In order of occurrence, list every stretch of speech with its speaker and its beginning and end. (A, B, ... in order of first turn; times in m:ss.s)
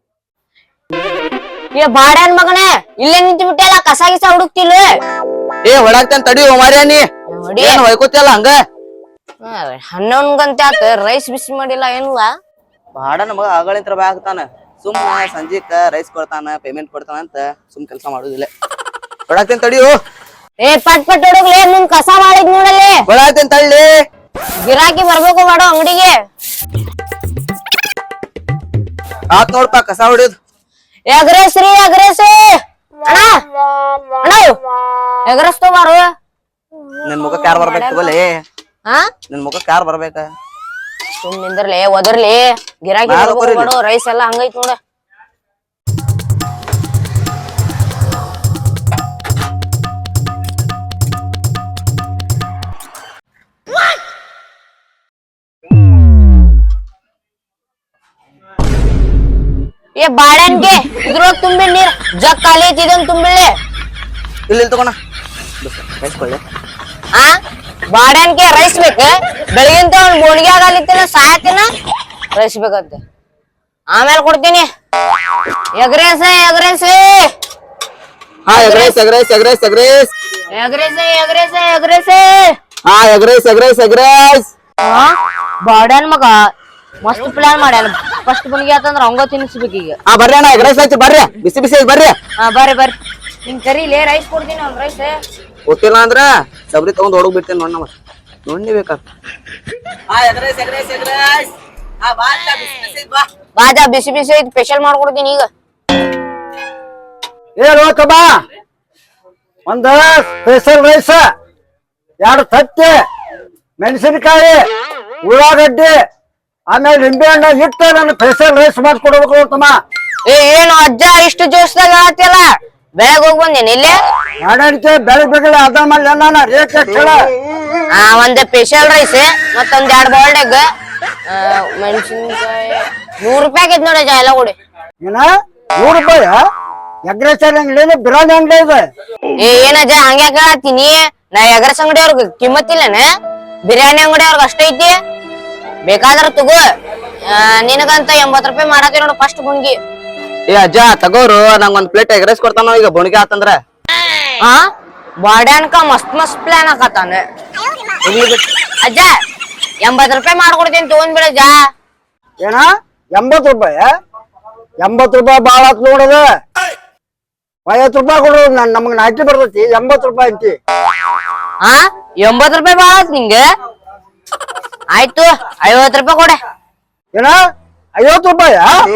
0:01.7-0:05.0 A
0:05.6-0:07.0 B
0:07.3-0:07.8 A
0:07.6-0:08.5 B
0:09.4-0:12.3 A
0:12.9-0:18.5 B
0:19.3-0:19.9 B
0:20.6-0:23.0 A
0:23.1-0:23.9 B
0:24.6-0:26.1 A
0:29.3-0:30.4 B
0:31.1-0:33.4 A
0:34.2-0:34.6 A
0:35.3-0:36.0 A
0:37.0-0:38.4 B
0:37.6-0:37.8 A
0:39.3-0:40.2 B
0:41.2-0:44.8 A
0:43.1-0:43.7 B
1:00.0-1:03.5 A
1:04.5-1:04.9 B
1:05.6-1:06.4 B
1:07.9-1:11.7 A
1:12.3-1:13.0 A
1:13.9-1:14.7 A
1:15.8-1:17.3 A
1:18.5-1:20.1 B
1:18.5-1:18.9 A
1:20.5-1:22.6 A
1:22.8-1:24.5 B
1:24.8-1:26.5 A
1:27.0-1:30.0 A
1:30.1-1:32.1 B
1:32.4-1:35.2 A
1:35.7-1:37.9 B
1:38.4-1:39.0 B
1:40.1-1:43.2 B
1:43.6-1:45.5 A
1:47.6-1:48.3 C
1:49.7-1:51.2 C
1:52.2-1:53.0 C
1:53.8-1:54.6 C
1:55.2-1:55.9 C
1:56.7-1:59.7 C
2:00.2-2:02.5 A
2:03.0-2:04.0 A
2:04.4-2:07.2 C
2:08.0-2:10.6 A
2:11.3-2:14.5 A
2:15.0-2:15.3 C
2:15.8-2:16.4 C
2:17.1-2:18.8 C
2:19.4-2:23.0 A
2:23.7-2:24.9 A
2:25.8-2:26.6 A
2:27.3-2:29.8 A
2:30.5-2:33.6 B
2:35.2-2:37.2 A
2:38.8-2:39.1 A
2:39.8-2:41.6 A
2:42.4-2:43.9 C
2:44.8-2:46.2 C
2:47.7-2:50.5 C
2:51.6-2:53.4 A
2:54.9-2:56.4 A
2:58.0-2:58.7 C